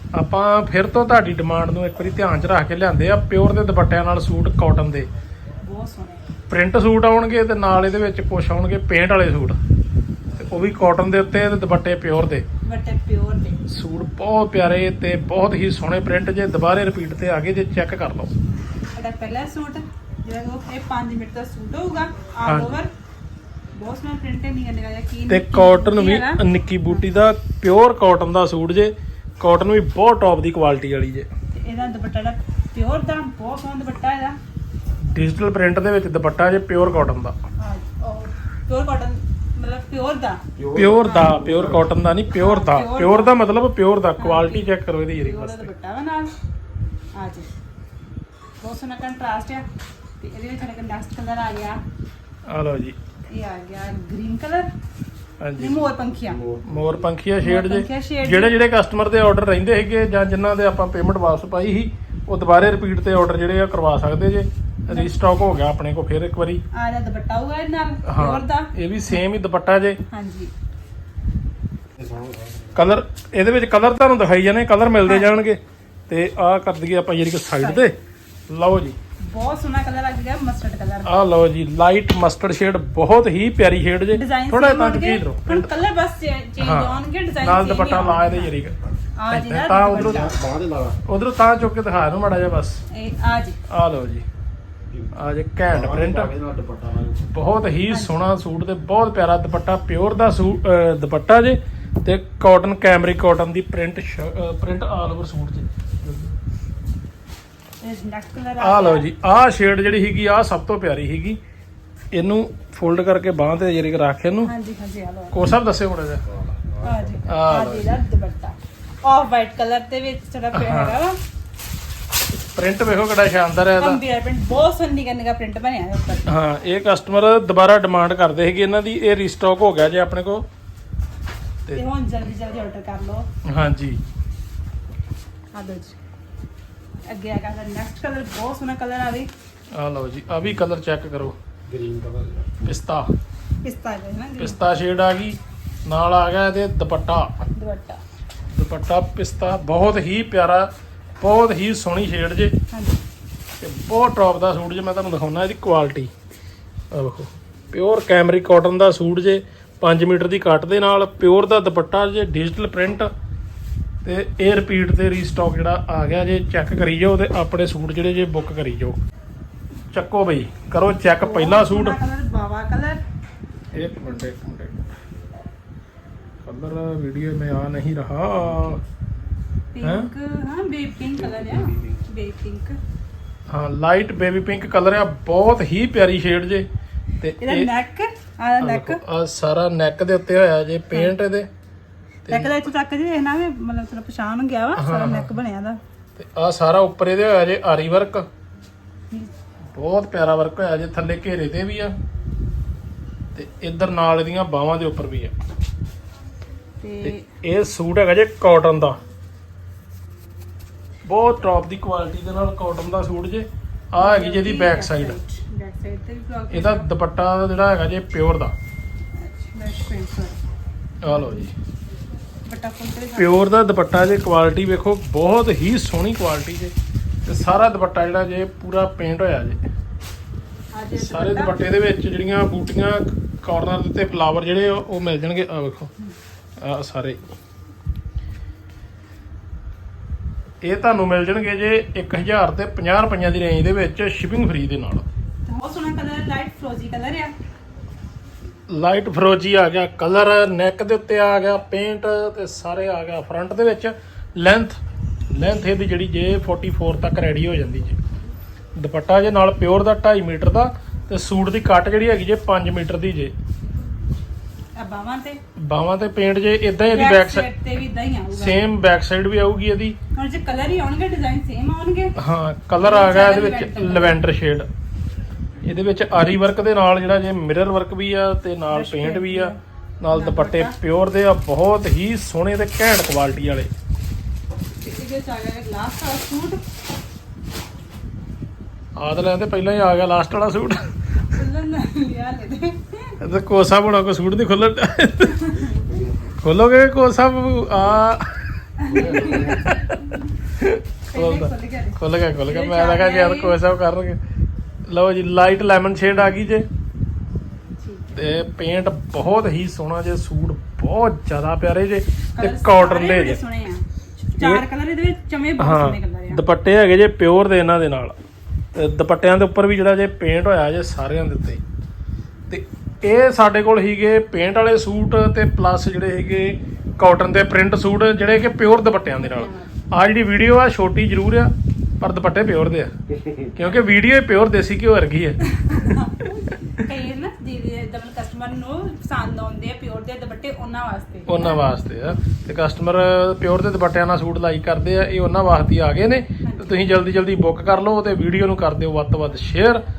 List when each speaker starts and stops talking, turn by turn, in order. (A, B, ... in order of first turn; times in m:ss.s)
0:00.2-0:05.1 A
0:05.6-0:06.3 B
0:06.5-0:09.6 A
0:10.4-0:12.4 A
0:12.6-0:13.6 B
0:13.7-0:18.3 A
0:19.0-0:22.9 B
0:22.5-0:22.8 A
0:23.8-0:26.4 B
0:25.3-0:31.3 A
0:31.6-0:34.4 B
0:35.1-0:37.4 A
0:37.6-0:40.4 B
0:40.6-0:41.8 C
0:40.7-0:45.7 A
0:41.0-0:41.4 B
0:42.4-0:43.3 B
0:44.2-0:46.3 B
0:47.2-0:47.5 B
0:48.6-0:49.6 B
0:50.2-0:51.8 B
0:52.5-0:53.0 A
0:53.3-0:54.7 B
0:55.4-0:55.9 A
0:55.6-0:56.4 B
0:56.3-0:56.9 C
0:56.6-1:06.6 A
0:57.4-0:58.6 B
1:06.7-1:08.7 B
1:08.1-1:10.0 A
1:10.1-1:10.5 B
1:12.0-1:12.7 C
1:12.8-1:18.0 A
1:17.6-1:17.8 B
1:18.5-1:19.0 A
1:19.2-1:21.1 B
1:21.1-1:25.7 A
1:24.1-1:28.5 B
1:26.6-1:28.8 A
1:29.2-1:30.4 B
1:29.3-1:30.3 A
1:30.0-1:31.0 C
1:31.1-1:32.8 A
1:32.9-1:33.6 B
1:33.7-1:34.2 A
1:35.1-1:36.3 A
1:35.7-1:37.3 C
1:37.3-1:46.3 A
1:37.9-1:38.2 B
1:47.8-1:49.0 B
1:48.6-1:51.4 A
1:52.1-1:54.5 A
1:54.4-1:55.4 B
1:55.3-1:56.2 A
1:56.5-1:57.0 C
1:56.8-2:01.2 B
1:57.3-1:57.9 A
2:00.5-2:01.0 A
2:02.3-2:04.0 A
2:03.8-2:06.3 B
2:06.3-2:10.4 A
2:11.7-2:13.3 B
2:13.5-2:14.0 A
2:15.5-2:16.0 B
2:17.1-2:19.3 B
2:19.7-2:21.4 A
2:21.7-2:22.6 C
2:22.6-2:23.1 A
2:23.6-2:24.6 B
2:24.4-2:27.3 A
2:27.6-2:28.0 B
2:28.5-2:30.7 A
2:31.2-2:32.5 A
2:32.7-2:33.0 B
2:33.6-2:36.1 A
2:36.9-2:43.1 A
2:44.0-2:49.0 A
2:49.9-2:52.0 A
2:51.2-2:53.0 B
2:53.7-2:55.0 A
2:56.4-2:58.8 A
2:59.7-3:02.8 B
2:59.8-3:00.1 A
3:03.5-3:06.7 A
3:07.2-3:07.7 A
3:07.4-3:09.0 B
3:08.6-3:11.5 A
3:12.3-3:12.6 A
3:12.3-3:15.8 B
3:14.8-3:15.3 A
3:16.2-3:18.3 A
3:19.7-3:21.9 A
3:23.4-3:25.3 A
3:26.8-3:27.3 B
3:27.0-3:29.0 A
3:31.1-3:35.2 A
3:34.0-3:36.9 B
3:36.5-3:38.5 A
3:39.2-3:40.4 B
3:41.0-3:41.5 A
3:41.1-3:41.4 B
3:42.4-3:43.4 B
3:43.2-3:46.7 A
3:47.3-3:49.6 A
3:50.7-3:51.6 B
3:51.0-3:55.9 A
3:56.6-3:57.2 A
4:00.6-4:05.0 A
4:05.5-4:07.3 B
4:08.7-4:14.8 A
4:15.3-4:18.0 A
4:18.8-4:23.3 A
4:24.8-4:25.4 B
4:25.6-4:27.5 A
4:26.9-4:28.6 B
4:28.3-4:30.0 A
4:30.2-4:32.2 B
4:32.2-4:34.7 A
4:32.8-4:34.2 B
4:35.6-4:43.7 A
4:38.7-4:39.6 B
4:40.1-4:40.7 B
4:44.8-4:46.6 B
4:49.0-4:50.9 A
4:51.3-4:53.2 B
4:53.2-4:55.5 A
4:55.4-4:55.8 B
4:55.8-4:56.3 C
4:56.4-4:58.4 A
4:58.8-5:00.3 B
4:58.9-4:59.6 C
4:59.0-5:00.0 A
5:00.6-5:04.2 A
5:01.1-5:03.6 B
5:04.9-5:06.7 A
5:07.8-5:08.1 B
5:08.1-5:13.4 A
5:12.4-5:13.8 B
5:14.4-5:16.4 B
5:14.4-5:14.6 A
5:15.6-5:18.2 A
5:18.8-5:21.6 A
5:22.5-5:32.9 A
5:29.1-5:29.7 B
5:33.6-5:35.4 A
5:35.5-5:41.6 B
5:41.3-5:49.8 A
5:46.4-5:46.8 B